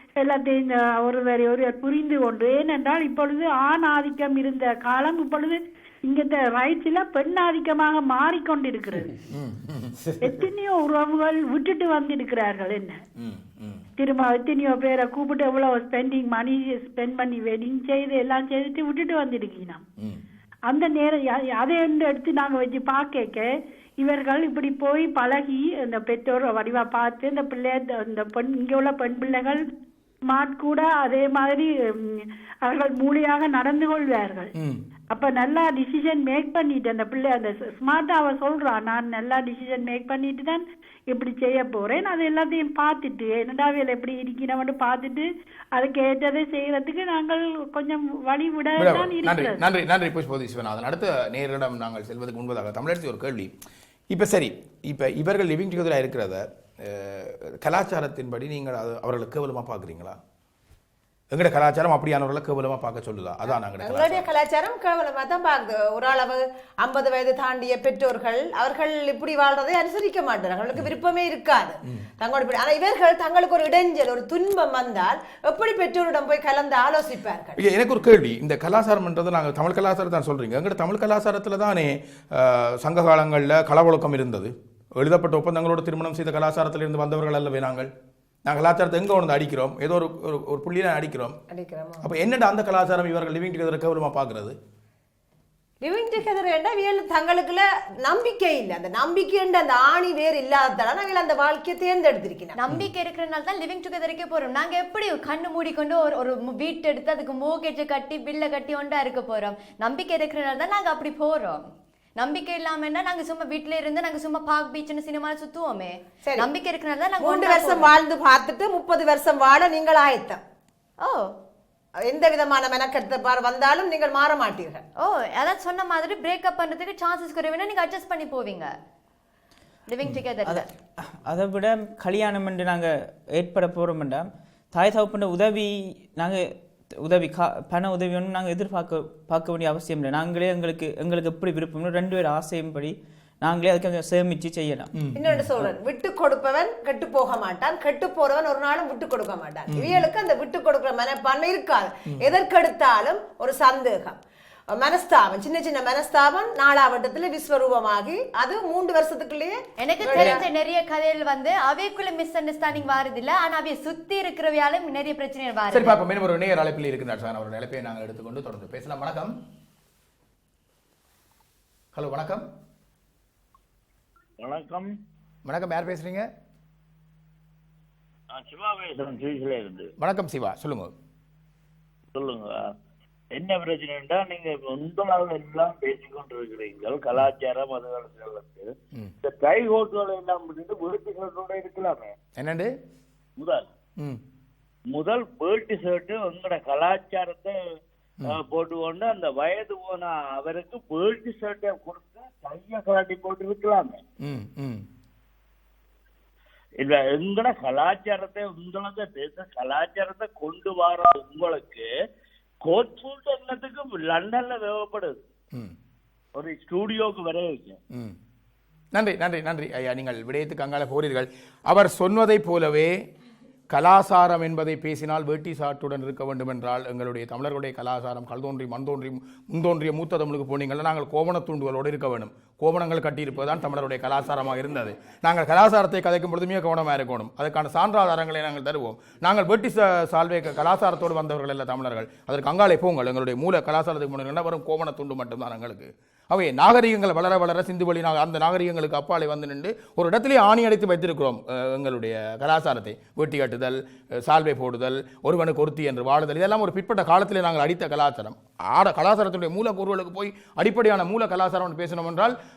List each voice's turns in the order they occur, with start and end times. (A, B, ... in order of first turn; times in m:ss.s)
0:00.2-0:09.1 A
0:09.3-0:10.0 B
0:10.2-0:13.0 A
0:13.2-0:13.9 B
0:14.0-0:19.8 A
0:20.7-0:23.5 A
0:24.0-0:29.6 A
0:30.3-0:34.5 A
0:34.6-0:34.8 B
0:35.1-0:49.6 A
0:48.8-0:53.5 B
0:54.1-1:00.2 B
1:01.3-1:04.3 B
1:03.8-1:17.6 C
1:17.6-1:27.9 B
1:28.4-1:31.4 B
1:31.5-1:32.1 C
1:32.0-1:34.6 B
1:35.8-1:42.6 C
1:42.6-1:57.9 D
1:56.2-1:56.5 C
1:57.2-2:00.4 C
2:01.0-2:01.3 D
2:02.0-2:04.8 C
2:05.0-2:08.7 D
2:09.9-2:10.7 D
2:10.5-2:24.9 E
2:24.9-2:25.6 B
2:25.2-2:34.2 C
2:29.7-2:30.1 B
2:34.7-2:40.5 C
2:39.8-2:46.0 D
2:45.7-2:49.3 B
2:51.9-2:52.5 B
2:54.4-2:54.9 F
2:55.5-2:56.3 B
2:58.3-2:59.9 F
3:00.0-3:00.9 B
3:02.2-3:02.7 F
3:03.4-3:08.7 F
3:09.2-3:12.1 F
3:12.4-3:12.7 B
3:13.4-3:13.7 F
3:14.9-3:17.6 F
3:18.3-3:24.0 F
3:24.2-3:24.8 B
3:26.8-3:31.9 F
3:32.7-3:35.2 F
3:36.4-3:37.8 F
3:38.9-3:43.1 B
3:43.7-4:22.4 B